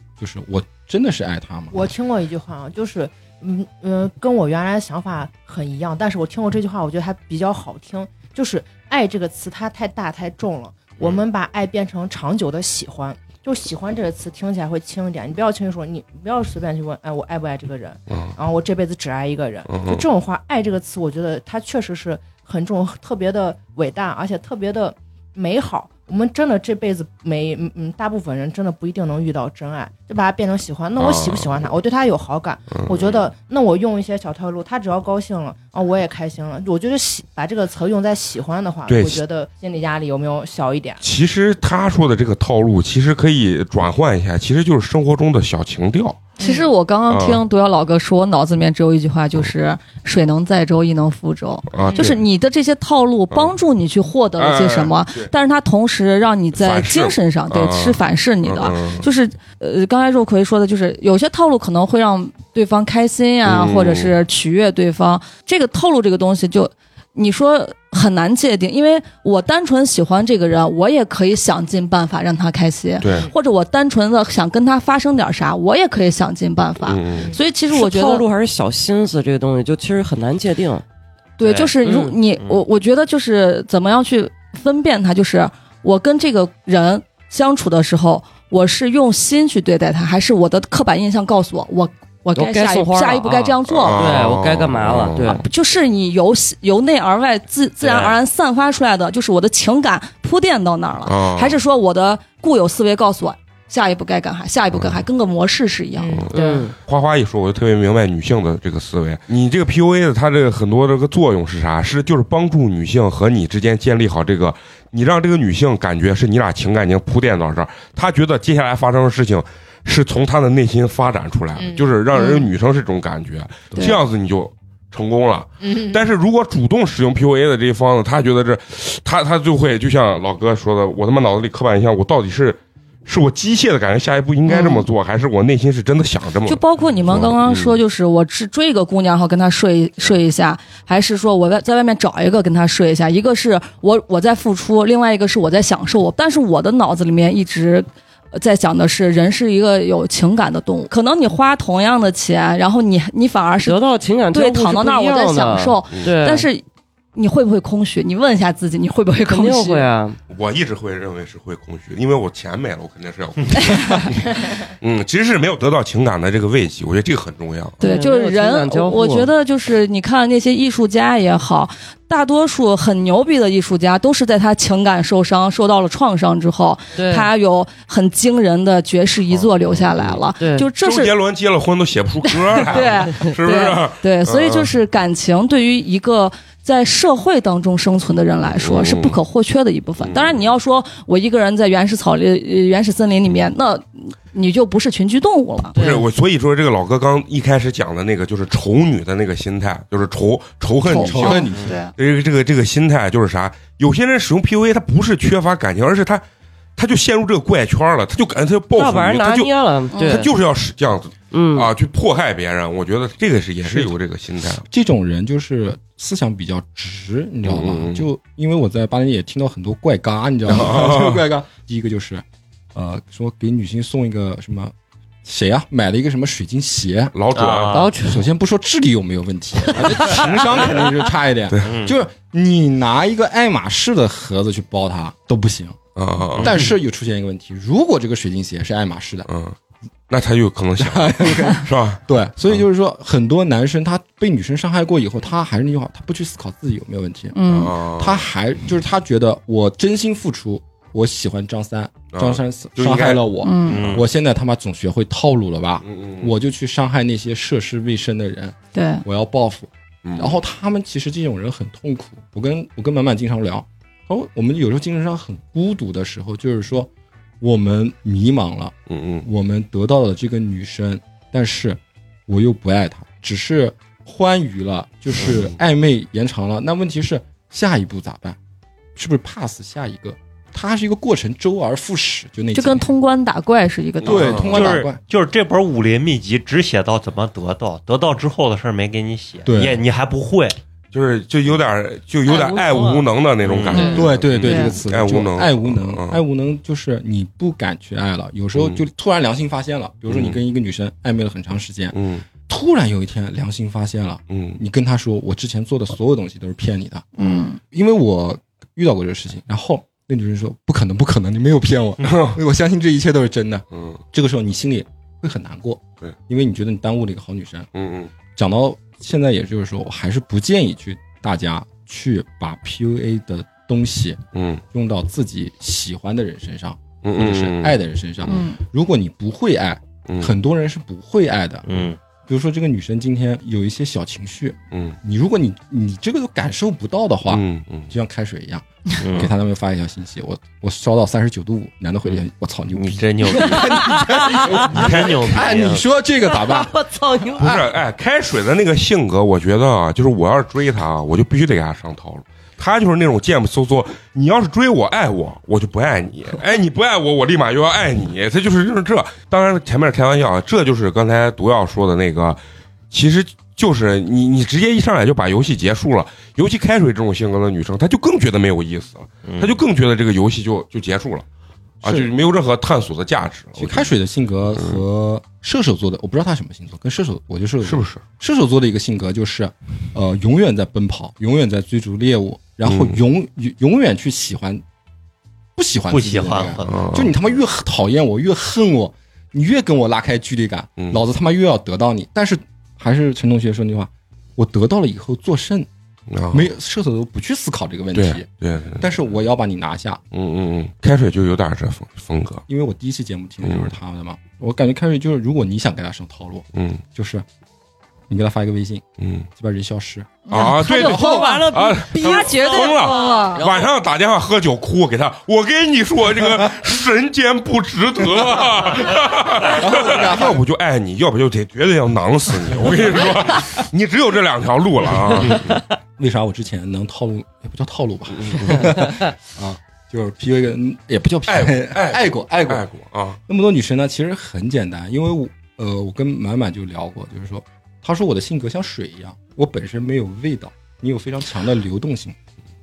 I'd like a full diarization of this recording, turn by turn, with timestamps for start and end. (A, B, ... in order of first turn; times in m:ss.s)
0:00.2-0:01.9 A
0:01.7-0:41.0 B
0:18.1-0:18.4 C
0:19.7-0:20.0 C
0:31.0-0:31.7 C
0:32.7-0:33.3 C
0:38.9-0:39.2 C
0:41.0-0:46.2 C
0:46.4-0:46.7 B
0:46.4-1:18.2 D
0:47.1-0:47.4 C
0:51.7-0:52.2 C
0:51.8-0:52.1 B
0:54.4-0:55.3 C
0:56.5-0:59.0 C
1:03.4-1:04.1 C
1:13.0-1:13.3 C
1:16.8-1:17.3 C
1:17.7-1:20.8 E
1:21.4-1:34.0 D
1:21.4-1:22.2 E
1:32.3-1:35.4 E
1:33.8-1:35.4 C
1:35.4-1:46.2 D
1:37.8-1:38.1 E
1:41.0-1:41.6 C
1:44.7-1:45.0 C
1:46.0-1:46.7 B
1:46.1-2:17.8 C
1:46.3-1:46.7 E
2:01.6-2:02.4 B
2:05.6-2:06.0 B
2:14.5-2:14.8 D
2:16.4-2:36.6 D
2:33.6-2:36.5 E
2:37.1-2:39.9 D
2:39.3-2:40.2 E
2:40.3-2:47.8 C
2:43.6-2:44.0 D
2:47.8-2:49.3 E
2:47.8-3:01.1 D
2:56.9-2:57.3 E
3:00.4-3:00.7 E
3:00.8-3:04.7 C
3:02.3-3:15.8 D
3:08.5-3:09.2 C
3:10.0-3:10.4 C
3:15.7-3:16.0 E
3:15.8-3:26.2 C
3:20.8-3:21.8 A
3:21.2-3:21.9 D
3:26.8-3:34.6 C
3:28.7-3:30.3 E
3:29.9-3:30.2 D
3:31.3-3:31.7 E
3:33.6-3:33.9 A
3:34.7-3:42.2 A
3:37.4-3:38.0 C
3:40.5-3:41.2 C
3:42.7-3:44.7 A
3:45.2-3:47.1 A
3:47.1-3:47.9 C
3:47.3-3:48.0 F
3:48.0-3:55.8 A
3:51.6-3:51.9 F
3:56.0-3:56.6 C
3:56.3-3:56.7 F
3:56.4-3:59.3 A
3:59.3-3:59.6 C
4:00.1-4:02.6 C
4:00.8-4:26.9 A
4:07.3-4:07.7 D
4:07.5-4:08.2 C
4:12.1-4:14.0 C
4:13.4-4:13.8 D
4:13.7-4:14.0 F
4:15.8-4:16.3 C
4:18.7-4:19.0 D
4:20.0-4:20.4 C
4:27.4-4:38.4 A
4:28.9-4:29.2 C
4:38.9-4:42.9 A
4:42.5-4:44.4 D
4:44.0-4:45.0 A
4:44.0-4:50.6 F
4:49.4-4:49.8 A
4:50.9-4:56.2 C
4:52.2-4:53.0 E
4:53.4-4:54.1 F
4:53.7-4:54.8 D
4:53.9-5:02.0 A
4:58.6-4:58.8 C
5:00.1-5:00.4 C
5:01.9-5:02.2 C
5:02.5-5:17.7 A
5:04.3-5:04.6 C
5:07.2-5:07.6 D
5:12.0-5:12.4 C
5:13.7-5:14.0 C
5:17.7-5:18.1 C
5:18.3-5:31.7 A
5:24.3-5:24.6 C
5:27.0-5:28.4 C
5:28.3-5:28.6 D
5:30.1-5:30.3 C
5:31.6-5:32.0 F
5:32.3-5:47.7 A
5:34.7-5:35.0 C
5:37.3-5:37.9 C
5:39.0-5:39.3 F
5:42.7-5:45.9 F
5:44.5-5:45.5 C
5:47.4-6:02.4 C
6:02.9-6:11.2 C
6:09.2-6:09.6 F
6:11.8-6:12.1 A
6:11.8-6:13.9 C
6:13.6-6:24.6 A
6:14.5-6:14.8 C
6:17.6-6:18.0 C
6:22.6-6:23.0 C
6:25.6-6:35.7 A
6:25.9-6:26.9 F
6:26.6-6:27.1 C
6:36.1-6:36.5 C
6:36.3-6:40.0 A
6:37.9-6:38.9 C
6:40.1-6:42.4 C
6:42.5-6:47.2 A
6:43.4-6:43.7 C
6:46.5-6:46.8 C
6:48.1-6:48.8 A
6:49.0-6:49.3 C
6:49.3-6:51.3 A
6:50.2-6:53.4 D
6:50.3-7:05.6 C
6:59.4-7:00.4 A
7:06.0-7:12.6 A
7:08.2-7:08.6 C
7:11.3-7:13.2 C
7:13.3-7:22.2 A